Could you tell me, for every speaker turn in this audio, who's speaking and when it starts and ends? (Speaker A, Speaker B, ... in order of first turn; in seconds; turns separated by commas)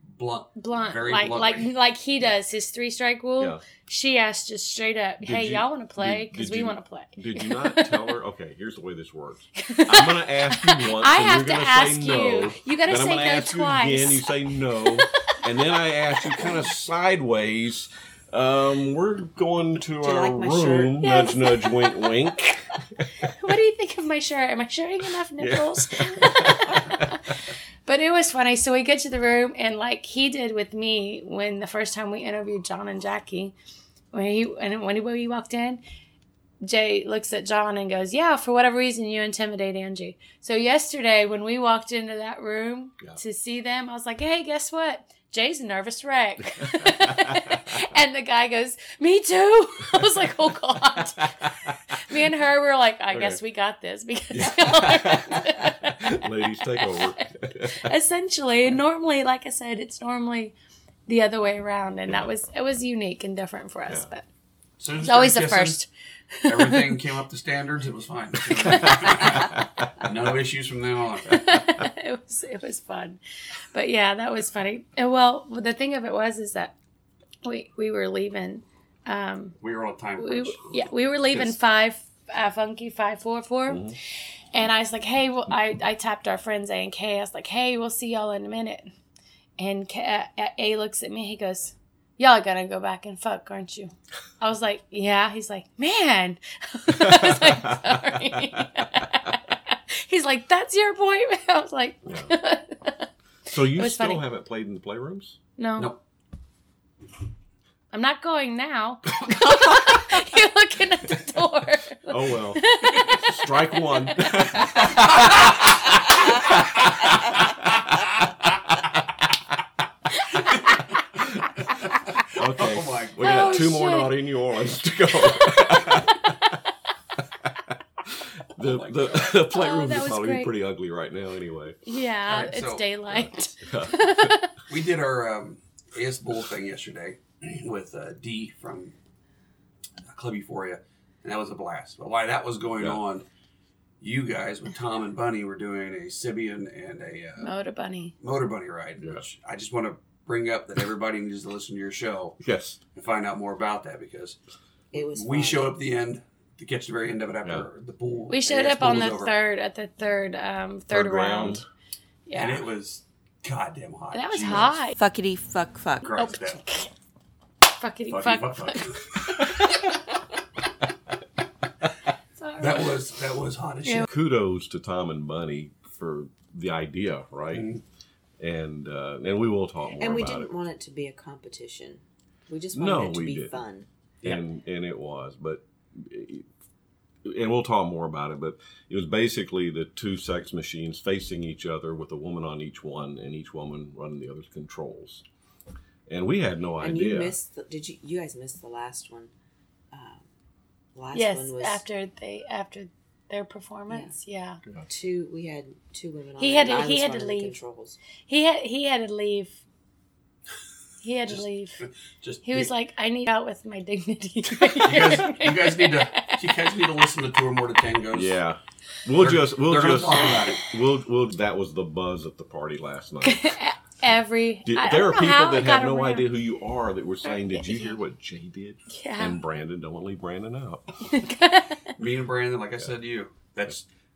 Speaker A: 0.1-1.7, Speaker B: 0.6-8.2, Speaker C: 5.2-23.3, Speaker B: 9.6-15.3, Speaker D: 20.0-21.0, Speaker B: 21.0-22.5, Speaker B: 23.2-33.5, Speaker C: 25.4-27.2, Speaker B: 34.1-35.8, Speaker B: 36.6-51.3, Speaker C: 46.6-47.6, Speaker C: 49.9-50.2, Speaker B: 51.9-60.5, Speaker C: 53.1-53.4, Speaker C: 54.3-57.9, Speaker B: 61.1-64.2, Speaker A: 64.8-65.8, Speaker B: 65.0-67.0, Speaker A: 66.5-71.4, Speaker C: 68.6-69.9, Speaker B: 71.3-73.2, Speaker B: 73.7-76.7, Speaker B: 77.4-79.5, Speaker A: 79.6-81.6, Speaker B: 80.2-83.9, Speaker C: 83.7-84.0, Speaker B: 84.5-88.9, Speaker B: 89.6-104.2, Speaker C: 96.9-98.6, Speaker C: 102.0-102.3, Speaker C: 103.5-105.4, Speaker B: 105.6-105.9, Speaker B: 107.9-114.7, Speaker C: 112.1-115.7, Speaker C: 116.4-117.0, Speaker B: 120.2-120.8, Speaker A: 120.5-123.8, Speaker C: 122.3-126.5, Speaker B: 123.2-124.1, Speaker B: 125.5-125.8, Speaker C: 127.4-131.8, Speaker A: 128.6-129.4, Speaker B: 129.5-130.5, Speaker B: 131.8-134.5, Speaker A: 132.3-132.9, Speaker C: 133.1-134.3, Speaker A: 134.7-138.9, Speaker A: 140.1-143.2, Speaker A: 144.0-147.5, Speaker B: 147.4-148.1, Speaker A: 148.2-152.4, Speaker C: 152.4-152.8, Speaker A: 152.9-154.4, Speaker D: 154.9-155.8, Speaker A: 154.9-159.3, Speaker B: 158.3-161.6, Speaker C: 160.9-161.7, Speaker B: 162.3-162.6, Speaker A: 162.3-164.8, Speaker B: 164.1-165.0, Speaker D: 164.9-166.3, Speaker A: 166.0-166.6, Speaker B: 166.2-166.9, Speaker B: 167.7-169.6, Speaker A: 168.1-169.1, Speaker B: 172.4-173.0, Speaker A: 172.6-174.1, Speaker C: 174.0-177.7, Speaker A: 177.5-177.8, Speaker C: 178.4-180.6, Speaker D: 180.0-183.9, Speaker C: 182.7-183.6, Speaker C: 184.2-186.5, Speaker C: 187.2-195.2, Speaker C: 196.1-197.3, Speaker D: 196.8-199.3, Speaker D: 199.9-200.2, Speaker D: 200.9-201.8, Speaker B: 201.1-204.6, Speaker D: 204.9-208.0, Speaker B: 206.4-207.6, Speaker B: 208.3-209.6, Speaker B: 211.0-211.8, Speaker A: 211.3-212.7, Speaker B: 212.4-216.5, Speaker A: 214.8-218.3, Speaker C: 218.1-223.5, Speaker A: 219.2-220.7, Speaker B: 223.2-226.3, Speaker C: 224.6-230.9, Speaker B: 227.2-227.9, Speaker B: 228.9-229.4, Speaker B: 231.1-231.9, Speaker A: 232.0-233.8